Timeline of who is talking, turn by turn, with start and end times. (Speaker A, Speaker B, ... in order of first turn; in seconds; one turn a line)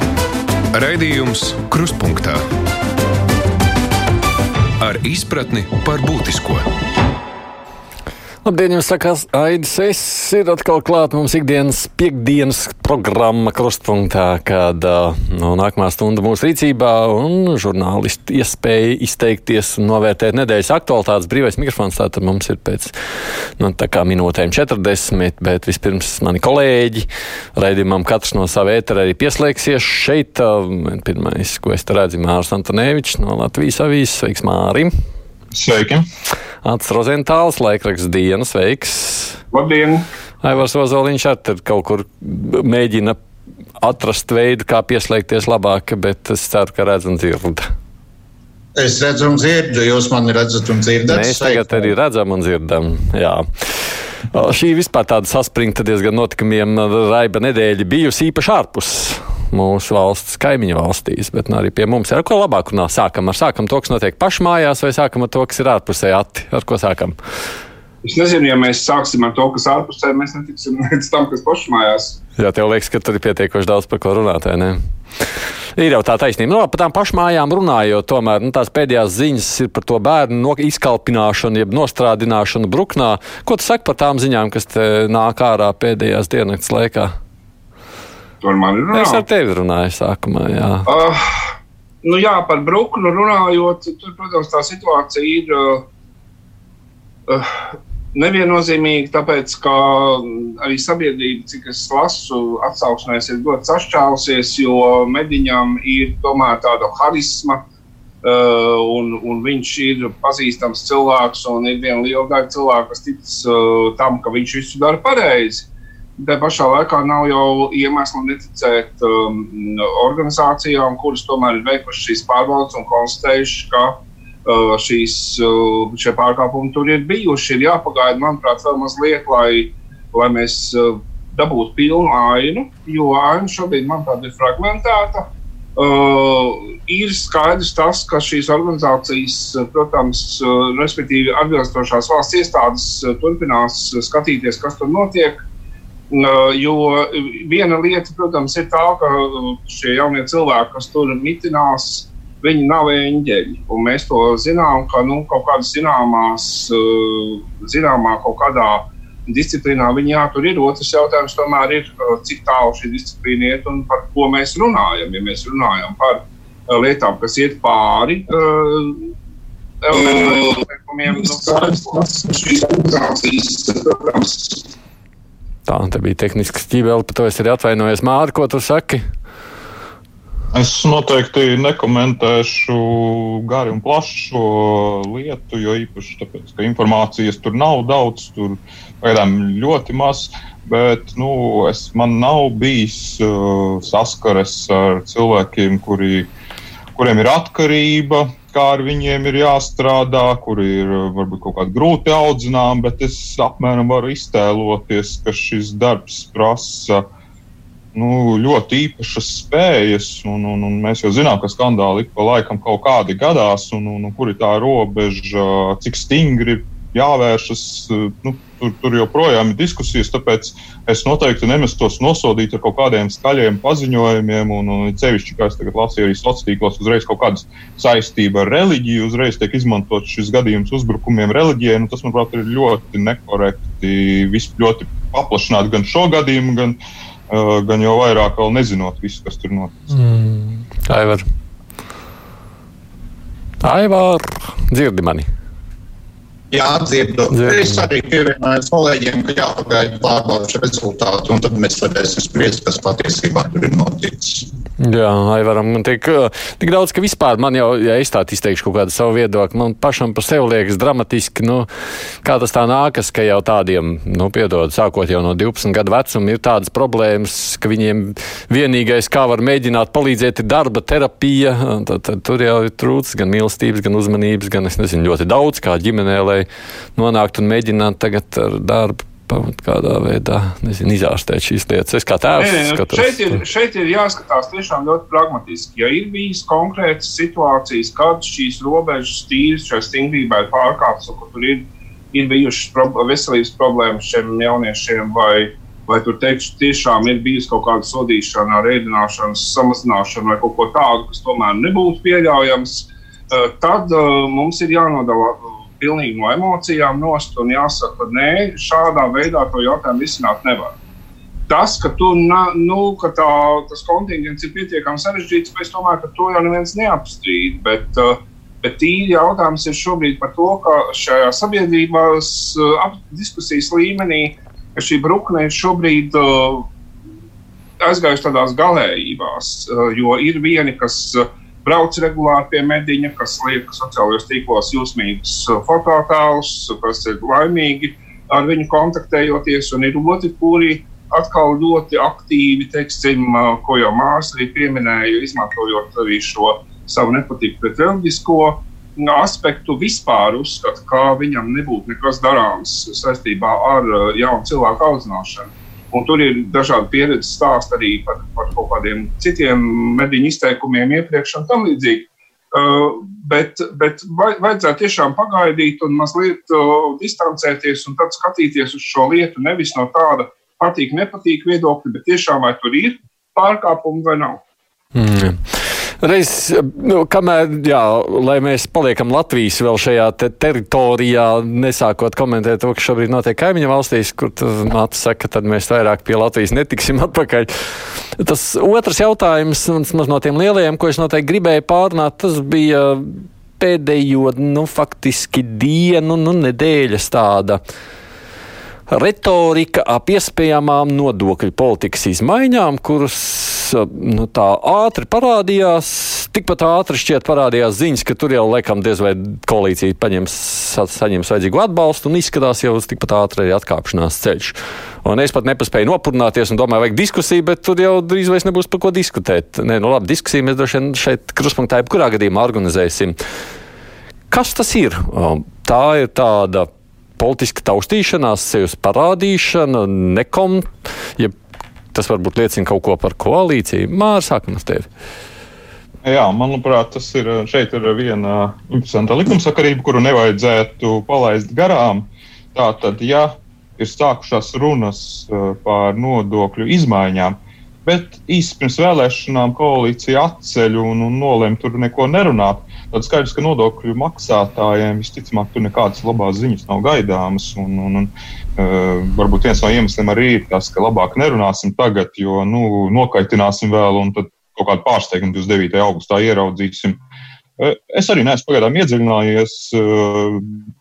Speaker A: 0.7-2.4
Speaker A: 4.8-6.7
Speaker B: 8.4-34.9
Speaker C: 35.5-36.1
Speaker B: 36.6-39.4
Speaker D: 39.5-40.1
Speaker B: 40.4-43.2
Speaker B: 43.8-47.7
Speaker E: 48.8-51.9
Speaker B: 51.1-67.2
Speaker D: 68.0-72.2
Speaker B: 72.4-87.2
Speaker D: 88.4-89.2
Speaker B: 88.9-90.9
Speaker D: 90.9-91.5
Speaker D: 92.0-95.9
Speaker D: 97.3-107.6
Speaker D: 108.2-115.7
Speaker D: 116.2-145.4
Speaker D: 146.1-169.1
Speaker D: 169.8-174.7
Speaker B: 175.7-179.0
Speaker C: 180.5-196.3
Speaker C: 196.9-207.1
Speaker C: 207.9-236.8
Speaker C: 237.3-239.7
Speaker B: 239.9-241.2
Speaker B: 243.6-245.3
Speaker E: 246.5-254.5
Speaker B: 247.3-247.6
Speaker B: 254.8-261.7
Speaker B: 262.2-283.4
Speaker D: 282.4-310.8
Speaker D: 311.5-326.7
Speaker D: 327.8-374.4
Speaker B: 374.9-397.6
Speaker B: 398.9-423.2
Speaker B: 424.3-431.3
Speaker B: 431.9-434.9
Speaker C: 436.0-467.0
Speaker C: 467.6-470.6